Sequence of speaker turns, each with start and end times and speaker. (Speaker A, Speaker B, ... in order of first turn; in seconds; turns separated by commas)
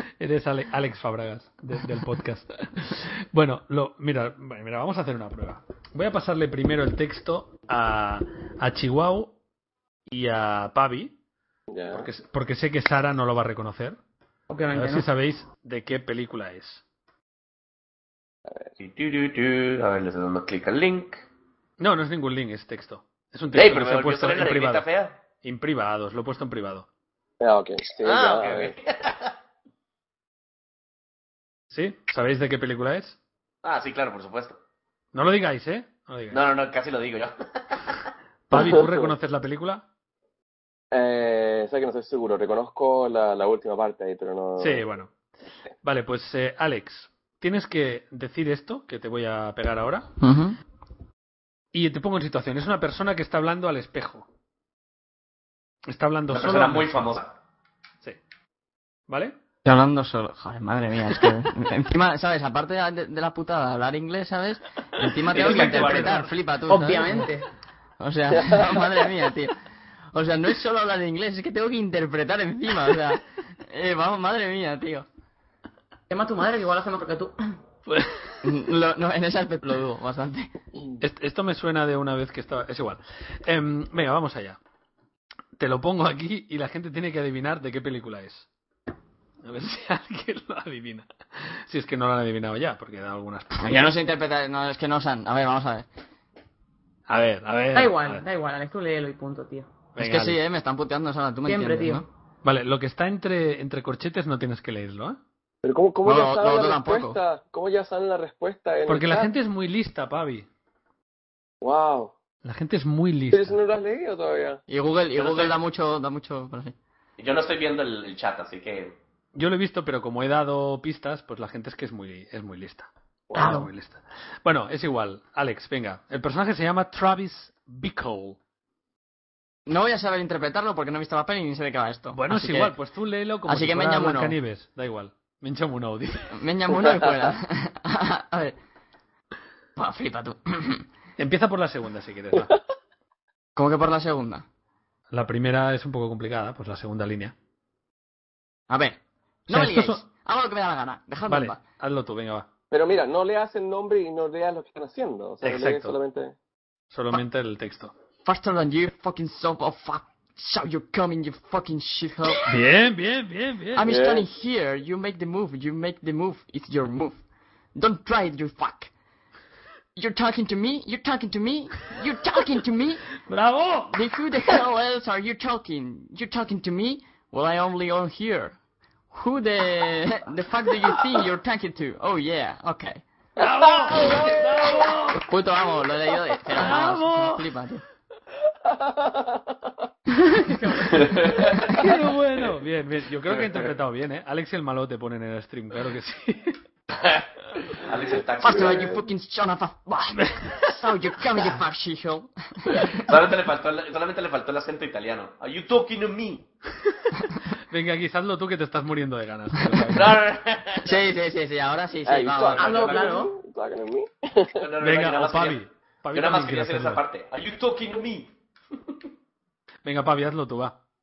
Speaker A: 0.2-9.3, Speaker A: 10.1-11.1, Speaker B: 11.7-12.1, Speaker A: 11.9-14.0, Speaker C: 14.5-15.1, Speaker A: 14.7-16.8, Speaker D: 18.8-21.2, Speaker A: 21.8-24.8, Speaker D: 23.5-25.1, Speaker A: 25.4-26.9, Speaker B: 27.4-28.7, Speaker D: 28.0-29.3, Speaker A: 31.7-33.2, Speaker D: 33.6-34.6, Speaker A: 35.1-36.4, Speaker D: 36.3-38.0, Speaker A: 38.5-39.8, Speaker B: 38.5-39.1, Speaker B: 40.9-44.8, Speaker A: 44.6-45.1, Speaker A: 45.8-50.1, Speaker E: 50.2-50.6, Speaker A: 51.7-54.3, Speaker A: 55.9-57.1, Speaker D: 56.3-57.3, Speaker A: 59.1-59.3, Speaker E: 59.6-67.3, Speaker D: 65.3-66.3, Speaker A: 65.4-66.2, Speaker C: 66.7-67.5, Speaker E: 68.0-69.5, Speaker B: 68.3-68.9, Speaker E: 70.1-75.0, Speaker C: 76.1-77.3, Speaker A: 77.9-78.3, Speaker E: 78.4-80.5, Speaker A: 81.0-84.6, Speaker A: 85.5-88.5, Speaker A: 89.4-93.9, Speaker E: 93.6-95.9, Speaker A: 97.1-98.2, Speaker C: 97.7-99.7, Speaker A: 100.0-100.4, Speaker E: 100.0-102.0, Speaker C: 101.4-102.0, Speaker A: 102.4-105.2, Speaker B: 105.6-109.3, Speaker E: 106.0-107.2, Speaker A: 108.9-110.5, Speaker B: 111.6-112.1, Speaker A: 112.4-113.5, Speaker B: 113.3-114.6, Speaker E: 114.7-116.7, Speaker D: 115.2-115.6, Speaker D: 117.2-119.0, Speaker A: 119.3-128.4, Speaker B: 123.3-123.7, Speaker C: 123.4-123.7, Speaker E: 129.7-132.7, Speaker A: 132.1-136.3, Speaker E: 133.4-134.4, Speaker E: 136.3-138.6, Speaker E: 139.8-140.8, Speaker A: 141.2-142.5, Speaker E: 143.6-144.4, Speaker A: 145.1-147.3, Speaker E: 148.7-151.6, Speaker A: 149.5-150.1, Speaker A: 151.3-152.5, Speaker B: 152.7-156.3, Speaker A: 155.4-155.9, Speaker A: 156.9-157.9, Speaker E: 158.2-162.6, Speaker A: 162.5-163.9, Speaker E: 163.7-167.2, Speaker B: 163.8-164.2, Speaker E: 167.8-168.9, Speaker E: 169.9-173.0, Speaker A: 173.3-173.9, Speaker E: 173.9-178.5, Speaker E: 179.1-183.0, Speaker A: 183.3-185.3, Speaker B: 183.4-185.1, Speaker E: 185.1-187.8, Speaker A: 186.5-187.5, Speaker B: 188.6-189.7, Speaker C: 190.3-191.2, Speaker E: 190.4-191.8, Speaker D: 190.9-191.7, Speaker A: 191.7-196.5, Speaker D: 196.9-199.0, Speaker E: 198.4-203.1, Speaker B: 198.5-199.0, Speaker A: 200.4-200.8, Speaker D: 202.8-206.4, Speaker A: 207.7-210.2, Speaker E: 209.7-209.9, Speaker D: 209.9-211.0, Speaker E: 210.8-213.0, Speaker B: 212.0-214.6, Speaker C: 212.6-213.3, Speaker D: 214.6-215.6, Speaker A: 214.8-217.0, Speaker D: 216.1-218.3, Speaker A: 219.8-220.8